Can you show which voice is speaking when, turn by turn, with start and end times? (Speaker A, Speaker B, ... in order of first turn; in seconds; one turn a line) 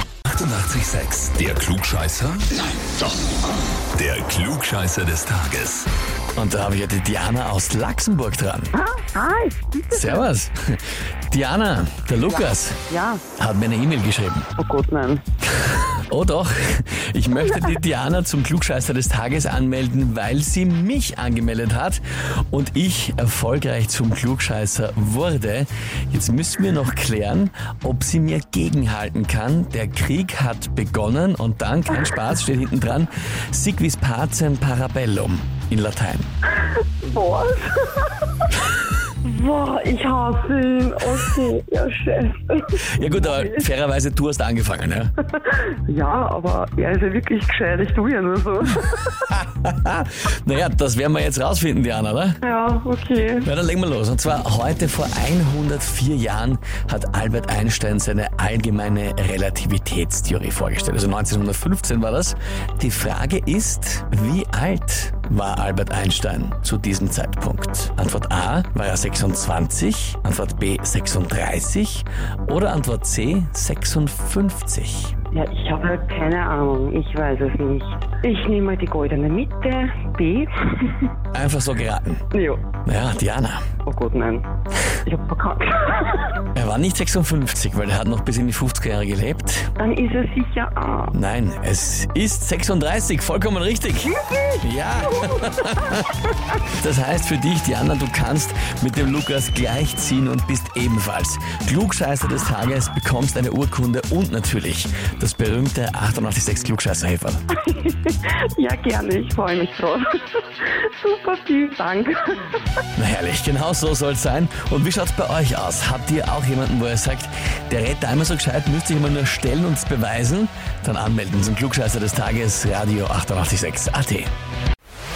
Speaker A: 0.2-2.5
Speaker A: 3.9-5.9
Speaker B: 6.3-8.7
Speaker C: 8.7-10.3
Speaker B: 9.9-12.8
Speaker C: 12.2-13.2
Speaker B: 13.4-14.5
Speaker C: 14.6-15.2
Speaker B: 15.6-36.3
Speaker C: 17.4-17.7
Speaker C: 36.6-38.3
Speaker C: 39.2-43.7
Speaker B: 42.9-45.1
Speaker C: 45.4-49.3
Speaker B: 49.3-52.4
Speaker C: 52.4-53.5
Speaker B: 53.4-75.1
Speaker C: 75.3-81.1
Speaker B: 81.3-82.2
Speaker C: 82.3-82.7
Speaker B: 82.8-83.6
Speaker C: 83.8-84.5
Speaker C: 85.0-86.4
Speaker B: 86.5-89.7
Speaker C: 89.8-91.1
Speaker B: 91.1-107.4
Speaker C: 94.1-95.6
Speaker C: 107.5-112.6
Speaker B: 112.9-124.3